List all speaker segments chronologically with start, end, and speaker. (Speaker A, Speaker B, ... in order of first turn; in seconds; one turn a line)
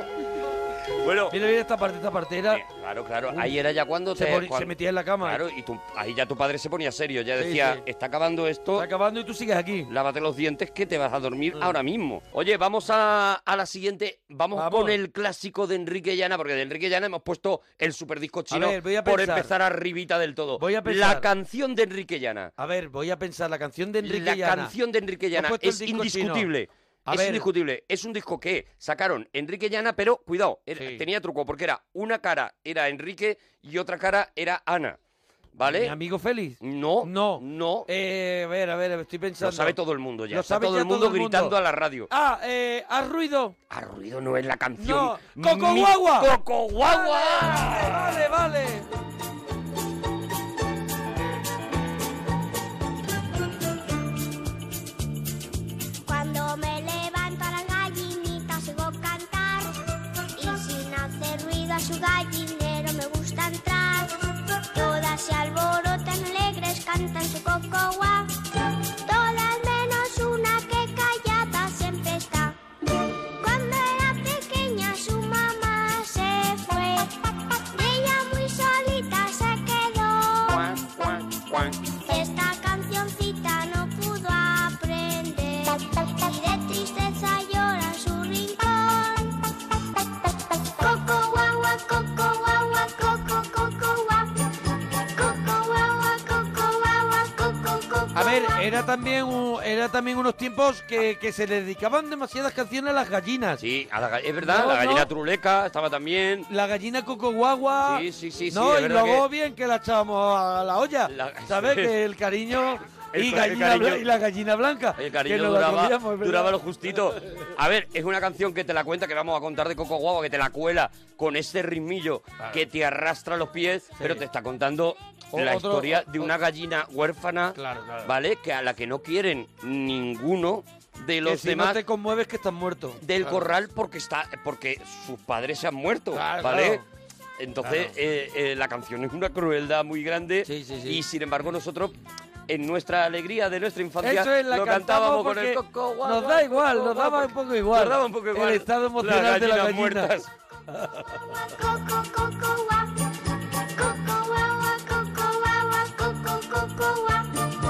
Speaker A: 1.0-1.4
Speaker B: 1.3-2.6
Speaker A: 2.5-8.9
Speaker B: 4.1-5.4
Speaker B: 7.4-7.8
Speaker B: 8.8-9.9
Speaker A: 9.9-22.5
Speaker B: 14.5-15.0
Speaker B: 18.5-19.5
Speaker B: 20.6-21.3
Speaker B: 22.6-24.7
Speaker A: 24.0-35.0
Speaker B: 25.3-26.5
Speaker B: 27.1-27.4
Speaker B: 30.8-31.0
Speaker A: 35.5-35.9
Speaker B: 35.6-39.8
Speaker A: 36.6-37.9
Speaker A: 39.4-42.1
Speaker B: 40.3-41.5
Speaker B: 42.1-43.5
Speaker A: 43.7-48.3
Speaker B: 44.8-46.3
Speaker B: 46.8-48.9
Speaker C: 56.0-59.7
Speaker C: 60.4-64.2
Speaker C: 64.7-68.3
Speaker C: 69.0-72.6
Speaker C: 73.4-77.1
Speaker C: 77.7-80.7
Speaker A: 80.5-81.8
Speaker C: 82.0-89.4
Speaker C: 90.8-94.4
Speaker C: 95.1-98.7
Speaker B: 98.1-103.6
Speaker A: 103.6-106.5
Speaker B: 104.4-105.1
Speaker B: 106.5-116.5
Speaker A: 107.8-109.3
Speaker A: 111.1-111.9
Speaker A: 113.1-114.1
Speaker A: 115.0-131.8
Speaker B: 124.0-124.2
Speaker B: 125.3-126.3
Speaker B: 127.5-128.1
Speaker B: 131.2-133.4
Speaker A: 133.0-136.8
Speaker B: 136.1-136.8
Speaker A: 137.4-142.0
Speaker B: 137.6-137.9
Speaker B: 140.4-141.0
Speaker A: 142.5-150.3
Speaker B: 144.0-150.2
Speaker C: 151.2-153.1
Speaker C: 153.8-157.4